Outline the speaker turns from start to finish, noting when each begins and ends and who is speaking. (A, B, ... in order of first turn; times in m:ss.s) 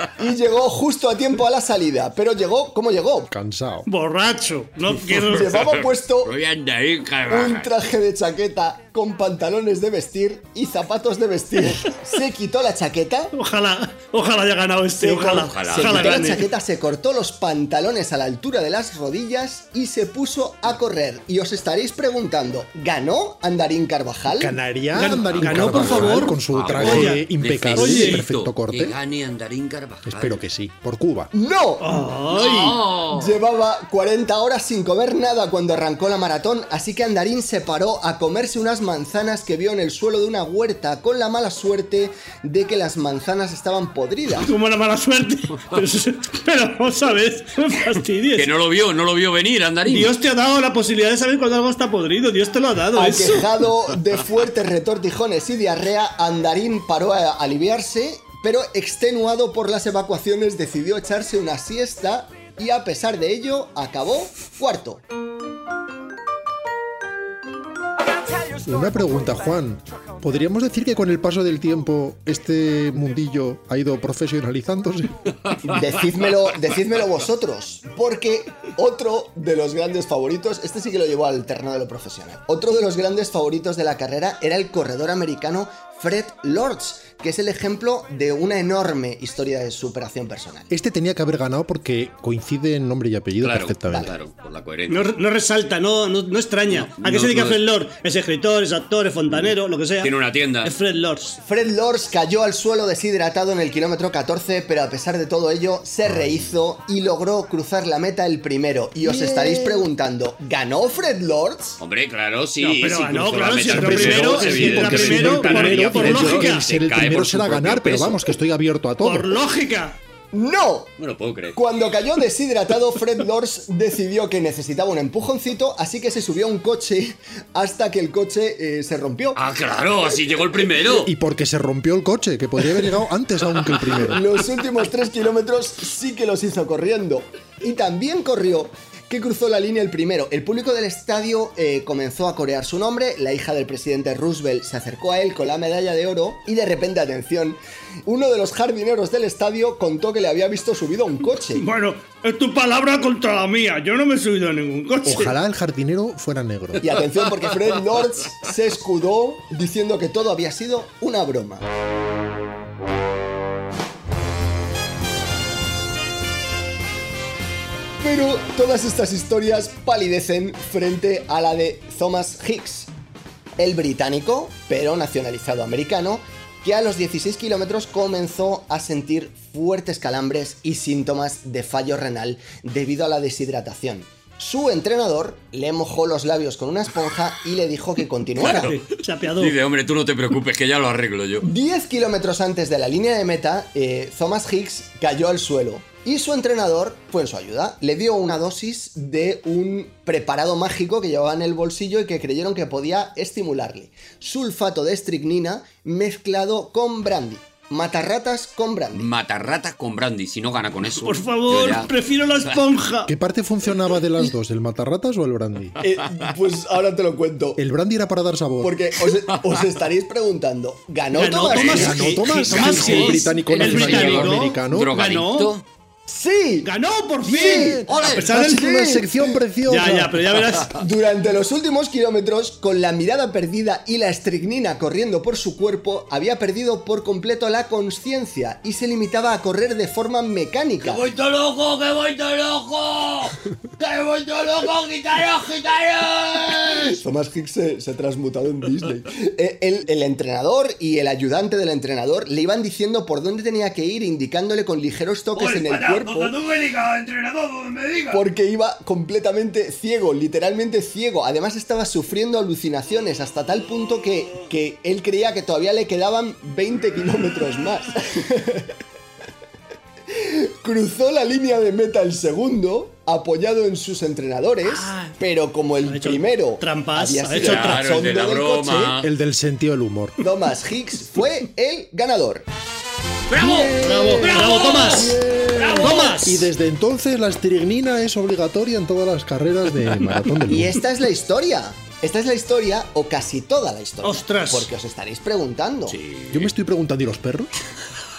0:00.2-0:03.3 A
0:03.3-0:03.9 B
0:03.9-0:05.5 C
0:05.1-0:06.3 A
0:05.3-0:07.7 D
0:07.3-0:13.3 A
0:13.3-0:16.5 C
0:15.0-0:24.6 A
0:15.4-0:16.3 D
0:24.4-0:29.0 B
0:24.9-0:27.2 C
0:25.7-0:30.4 D
0:27.8-0:28.2 C
0:30.0-0:31.3 B
0:31.3-0:31.8 A
0:31.8-0:32.7 C
0:32.3-0:33.4 D
0:33.1-0:44.5 A
0:44.4-0:48.5 C
0:48.4-0:50.1 D
0:49.9-0:53.7 C
0:53.0-1:05.0 A
1:08.6-1:15.2 B
1:15.6-1:30.7 A
1:30.7-1:34.1 B
1:33.4-1:35.0 D
1:34.9-1:40.1 C
1:36.7-1:37.6 D
1:40.0-1:40.7 D
1:40.6-1:41.4 C
1:41.4-1:51.8 A
1:49.0-1:49.9 B
1:51.8-1:58.2 D
1:52.6-1:56.6 C
1:53.7-1:59.3 B
1:59.0-2:00.0 C
2:00.3-2:00.9 A
2:01.0-2:01.6 D
2:01.5-2:09.4 A
2:09.4-2:11.1 D
2:11.0-2:14.2 B
2:14.0-2:31.6 A
2:31.6-2:35.4 C
2:35.0-2:36.9 B
2:36.8-2:41.6 A
2:48.0-2:52.9 A
2:53.6-3:08.7 A
3:08.4-3:08.7 D
3:08.4-3:09.6 C
3:09.4-3:11.5 D
3:11.4-3:29.1 A
3:29.0-3:31.9 D
3:30.8-3:33.1 C
3:33.1-3:35.8 B
3:35.8-3:37.6 A
3:37.6-3:38.9 B
3:38.6-3:42.2 A
3:41.1-3:45.6 C
3:41.5-3:45.6 D
3:41.5-3:44.9 B
3:46.1-3:46.7 A
3:46.6-3:48.7 C
3:47.3-3:50.4 B
3:47.3-3:49.4 A
3:47.9-3:48.3 D
3:49.7-3:50.8 C
3:50.8-4:01.1 A
4:00.8-4:07.0 D
4:06.8-4:16.4 A
4:15.4-4:18.2 D
4:18.1-4:28.7 A
4:30.1-4:39.0 A
4:34.7-4:35.1 C
4:35.9-4:37.8 C
4:37.4-4:39.1 D
4:39.0-4:40.2 B
4:40.2-4:42.4 A
4:43.3-4:46.1 D
4:43.4-4:50.8 B
4:43.4-4:45.2 C
4:45.8-4:46.5 C
4:50.5-4:56.0 A
4:54.0-4:54.7 C
4:55.9-4:56.5 D
4:56.3-4:57.5 B